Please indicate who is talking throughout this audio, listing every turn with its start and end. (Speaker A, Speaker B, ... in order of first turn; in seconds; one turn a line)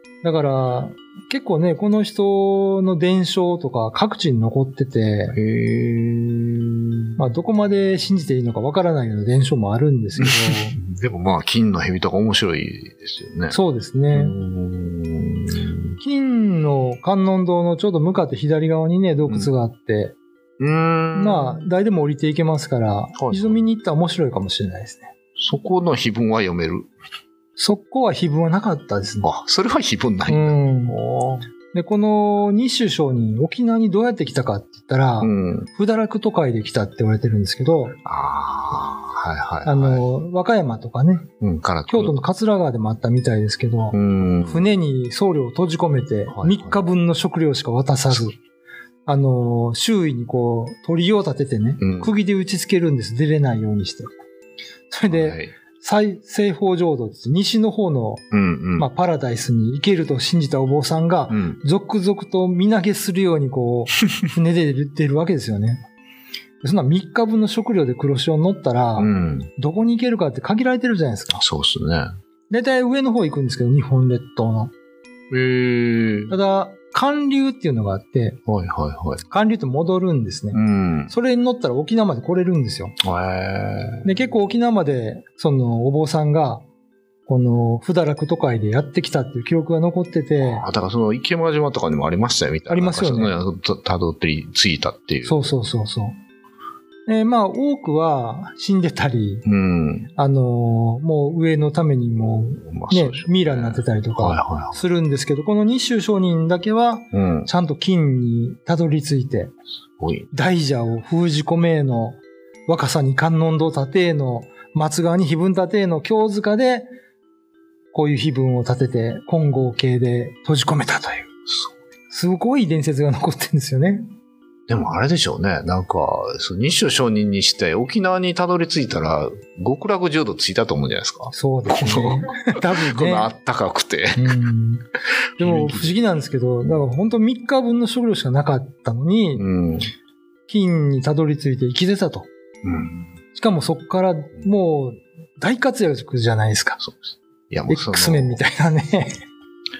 Speaker A: 0.2-5.4
Speaker B: 5.3-7.2
Speaker A: 7.2-10.8
Speaker B: 10.2-13.6
Speaker A: 13.5-14.4
Speaker B: 14.1-15.9
Speaker A: 16.0-20.1
Speaker B: 20.6-21.6
Speaker A: 21.1-25.1
Speaker B: 23.1-23.6
Speaker B: 25.4-26.9
Speaker A: 27.6-29.3
Speaker B: 29.2-31.4
Speaker A: 30.2-31.0
Speaker A: 31.7-38.0
Speaker B: 35.2-35.7
Speaker B: 38.0-40.0
Speaker A: 39.6-41.3
Speaker B: 41.4-42.2
Speaker A: 41.9-48.4
Speaker B: 43.9-44.7
Speaker B: 46.3-46.8
Speaker A: 49.0-54.1
Speaker B: 51.8-52.2
Speaker A: 54.9-65.8
Speaker B: 55.1-55.5
Speaker B: 58.3-58.9
Speaker B: 61.3-61.6
Speaker A: 66.6-71.4
Speaker B: 69.0-69.5
Speaker B: 71.4-72.1
Speaker A: 72.5-74.7
Speaker B: 75.3-76.4
Speaker A: 76.3-78.4
Speaker B: 78.5-79.2
Speaker A: 79.2-83.0
Speaker B: 80.5-81.1
Speaker B: 83.0-84.2
Speaker A: 84.0-86.6
Speaker A: 87.3-90.6
Speaker B: 90.4-95.5
Speaker A: 92.7-93.4
Speaker A: 95.2-96.2
Speaker A: 97.0-99.4
Speaker B: 99.4-100.1
Speaker A: 100.1-109.5
Speaker B: 102.6-104.8
Speaker B: 107.1-107.5
Speaker B: 110.0-110.3
Speaker A: 110.3-116.9
Speaker A: 117.9-121.3
Speaker B: 121.5-121.7
Speaker A: 122.1-124.0
Speaker B: 124.7-134.3
Speaker A: 131.3-133.3
Speaker A: 134.2-134.8
Speaker B: 135.3-135.9
Speaker A: 135.4-139.4
Speaker B: 139.3-139.9
Speaker A: 140.5-142.3
Speaker B: 142.6-143.1
Speaker A: 143.3-146.8
Speaker B: 146.8-148.4
Speaker A: 147.7-149.2